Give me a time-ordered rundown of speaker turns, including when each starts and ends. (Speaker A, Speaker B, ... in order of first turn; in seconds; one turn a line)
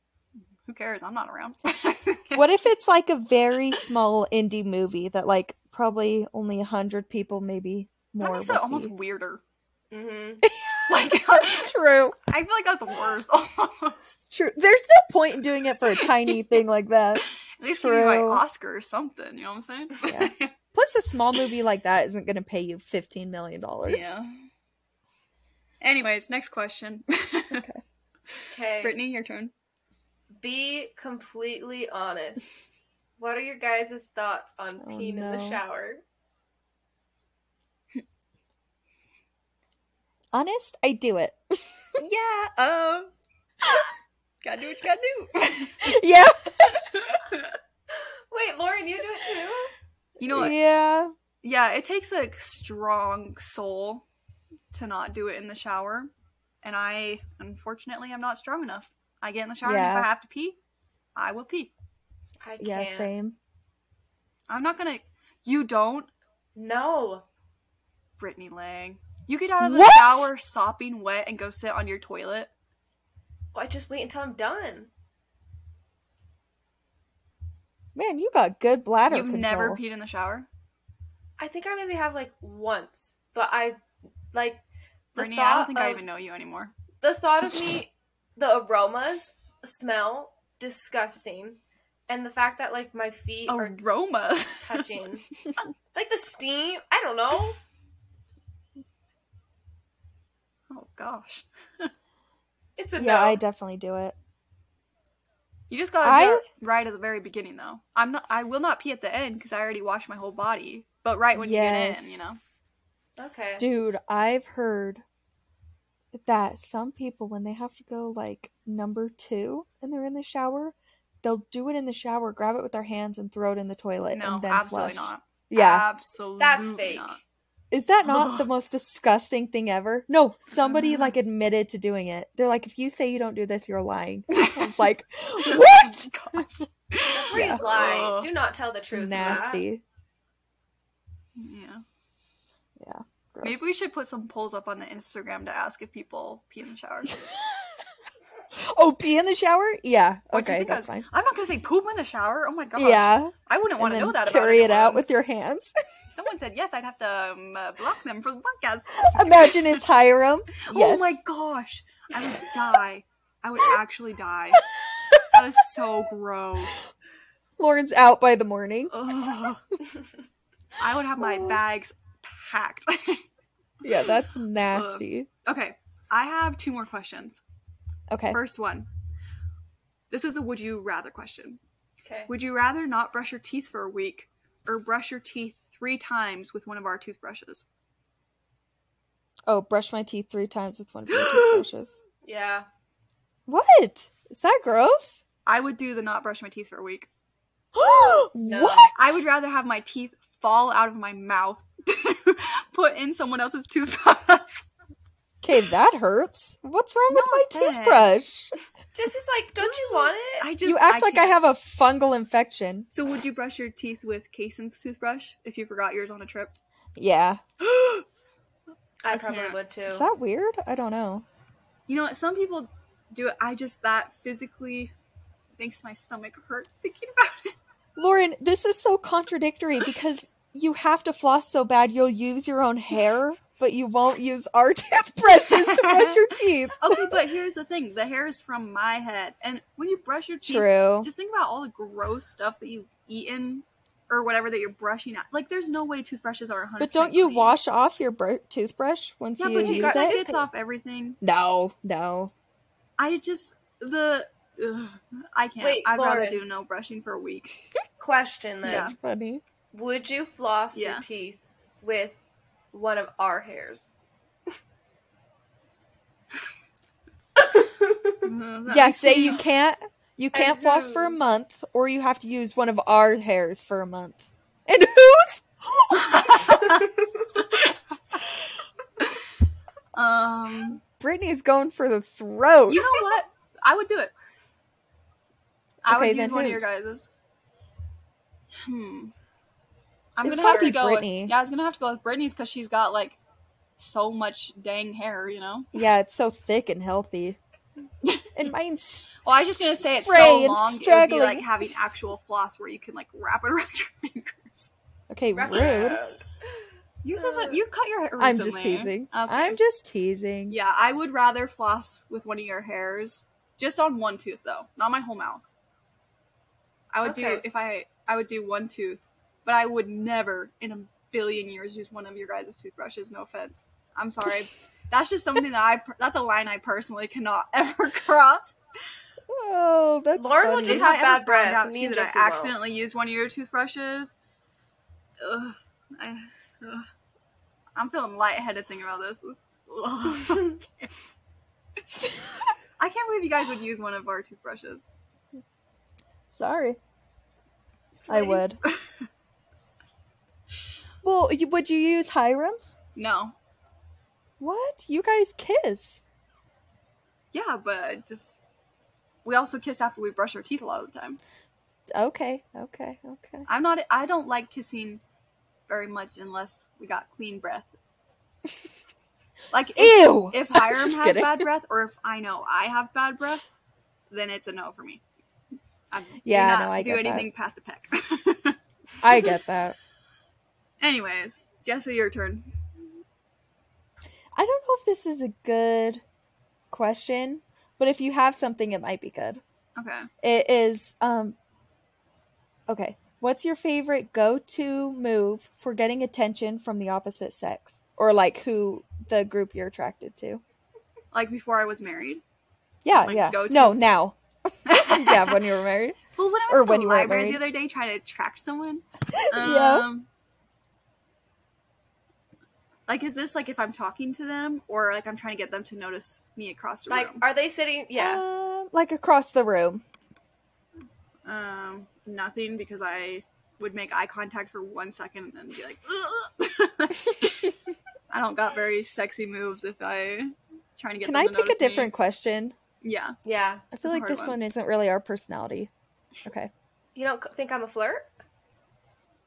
Speaker A: 0.7-2.5
Speaker B: 2.3-8.9
Speaker A: 8.2-9.4
Speaker C: 9.9-10.4
Speaker B: 10.4-12.2
Speaker A: 10.9-11.7
Speaker A: 12.2-14.2
Speaker B: 14.3-18.4
Speaker A: 16.0-16.3
Speaker A: 17.5-20.5
Speaker B: 20.1-24.2
Speaker A: 23.9-24.3
Speaker A: 25.8-27.6
Speaker B: 27.5-27.8
Speaker C: 28.5-28.9
Speaker A: 28.8-29.5
Speaker C: 30.4-32.6
Speaker C: 33.2-36.0
Speaker B: 34.8-35.6
Speaker B: 40.3-42.0
Speaker A: 42.0-43.1
Speaker A: 44.4-45.9
Speaker B: 45.8-46.8
Speaker A: 46.7-47.5
Speaker C: 48.0-49.7
Speaker A: 50.2-50.5
Speaker B: 50.3-51.1
Speaker A: 51.4-54.0
Speaker A: 54.7-56.1
Speaker A: 56.6-60.6
Speaker B: 59.6-60.1
Speaker A: 61.1-61.7
Speaker C: 62.4-63.1
Speaker B: 62.6-63.4
Speaker A: 64.5-66.1
Speaker C: 66.5-67.2
Speaker A: 68.2-72.5
Speaker B: 69.6-70.3
Speaker C: 73.5-74.9
Speaker B: 77.9-79.8
Speaker A: 79.1-80.5
Speaker C: 81.4-83.8
Speaker C: 84.3-84.6
Speaker C: 85.1-86.0
Speaker A: 85.2-86.7
Speaker C: 87.0-93.8
Speaker A: 93.5-95.0
Speaker C: 94.6-95.2
Speaker C: 95.9-97.6
Speaker A: 100.7-101.9
Speaker C: 102.8-103.4
Speaker B: 103.0-104.1
Speaker A: 105.7-112.4
Speaker B: 106.0-106.4
Speaker B: 111.3-112.3
Speaker C: 113.2-113.6
Speaker B: 113.6-115.0
Speaker B: 116.1-125.9
Speaker A: 124.1-127.2
Speaker C: 126.4-127.2
Speaker B: 127.7-136.5
Speaker A: 128.0-128.5
Speaker A: 130.6-131.1
Speaker A: 134.3-134.9
Speaker A: 135.4-138.3
Speaker C: 137.1-139.6
Speaker B: 137.3-137.7
Speaker B: 138.9-139.8
Speaker A: 141.3-141.8
Speaker B: 142.8-143.7
Speaker A: 143.4-147.1
Speaker B: 147.1-147.8
Speaker B: 148.5-151.1
Speaker A: 150.3-155.0
Speaker B: 152.8-155.7
Speaker A: 156.1-159.8
Speaker B: 159.0-161.2
Speaker A: 160.6-164.6
Speaker B: 162.2-162.6
Speaker B: 164.6-165.6
Speaker A: 165.3-166.8
Speaker B: 167.6-168.9
Speaker A: 168.9-169.7
Speaker A: 170.8-173.2
Speaker B: 171.2-171.6
Speaker B: 173.8-175.3
Speaker A: 174.7-177.4
Speaker B: 178.1-178.4
Speaker A: 178.3-178.9
Speaker A: 180.1-181.6
Speaker C: 182.0-182.3
Speaker A: 182.3-187.6
Speaker B: 189.5-192.0
Speaker A: 191.1-191.7
Speaker C: 192.2-192.7
Speaker B: 193.5-195.2
Speaker A: 195.4-197.1
Speaker B: 197.7-199.2
Speaker C: 198.4-198.9
Speaker A: 198.9-204.7
Speaker B: 205.4-208.5
Speaker A: 207.1-208.2
Speaker C: 208.9-210.5
Speaker A: 209.6-211.3
Speaker B: 210.6-212.9
Speaker A: 212.9-216.5
Speaker B: 216.9-217.4
Speaker A: 217.6-218.1
Speaker C: 219.0-220.1
Speaker A: 219.1-219.6
Speaker B: 219.9-221.2
Speaker A: 221.9-224.9
Speaker A: 225.6-227.5
Speaker B: 227.9-237.2
Speaker A: 235.5-236.2
Speaker A: 236.8-247.6
Speaker B: 240.4-241.1
Speaker B: 246.8-250.2
Speaker A: 249.4-251.2
Speaker C: 249.6-250.5
Speaker B: 251.2-252.3
Speaker A: 253.0-257.6
Speaker C: 255.6-256.4
Speaker C: 258.0-258.9
Speaker A: 258.6-258.9
Speaker B: 258.6-259.4
Speaker C: 259.7-262.2
Speaker A: 260.7-261.0
Speaker C: 262.7-263.9
Speaker C: 267.4-268.2
Speaker A: 268.2-269.4
Speaker B: 268.7-276.8
Speaker C: 270.3-271.3
Speaker A: 275.9-278.2
Speaker A: 279.9-280.8
Speaker B: 280.8-283.0
Speaker A: 282.7-284.1
Speaker A: 285.8-287.1
Speaker B: 285.9-286.7
Speaker A: 288.6-289.1
Speaker A: 290.2-293.2
Speaker B: 290.2-291.3
Speaker C: 290.3-290.8
Speaker A: 293.8-295.8
Speaker B: 295.7-297.4
Speaker A: 298.0-298.4
Speaker B: 298.3-299.1
Speaker A: 299.2-304.7
Speaker B: 299.8-301.5
Speaker B: 305.1-306.0
Speaker C: 305.4-306.2
Speaker A: 307.0-309.6
Speaker C: 307.2-307.6
Speaker B: 308.2-310.6
Speaker A: 310.5-315.4
Speaker A: 316.9-328.6
Speaker C: 317.0-317.4
Speaker B: 329.3-330.9
Speaker C: 330.1-332.5
Speaker A: 330.6-334.1
Speaker A: 335.2-336.9
Speaker A: 337.8-340.9
Speaker A: 342.8-344.9
Speaker B: 346.3-346.8
Speaker A: 347.9-348.8
Speaker B: 348.1-348.6
Speaker B: 351.0-352.8
Speaker A: 352.9-353.3
Speaker B: 354.4-356.0
Speaker A: 357.3-358.4
Speaker A: 359.2-361.2
Speaker B: 361.9-363.4
Speaker A: 363.5-365.0
Speaker A: 365.7-367.7
Speaker A: 369.5-373.4
Speaker B: 369.8-371.5
Speaker A: 374.1-375.0
Speaker A: 375.9-379.3
Speaker B: 376.2-377.3
Speaker B: 379.0-379.8
Speaker A: 380.8-382.5
Speaker B: 384.3-386.0
Speaker B: 386.7-389.4
Speaker A: 389.8-390.1
Speaker B: 390.2-391.4
Speaker B: 392.7-400.4
Speaker A: 401.1-402.2
Speaker B: 402.8-407.4
Speaker A: 402.9-403.8
Speaker A: 404.7-405.4
Speaker A: 406.1-410.1
Speaker B: 409.1-409.9
Speaker A: 412.9-417.2
Speaker C: 416.9-418.2
Speaker B: 418.0-419.8
Speaker A: 421.2-427.5
Speaker A: 428.1-431.9
Speaker B: 431.0-432.6
Speaker A: 432.8-433.2
Speaker C: 433.2-433.6
Speaker B: 433.7-435.7
Speaker A: 433.8-434.4
Speaker B: 436.2-436.5
Speaker C: 436.9-438.1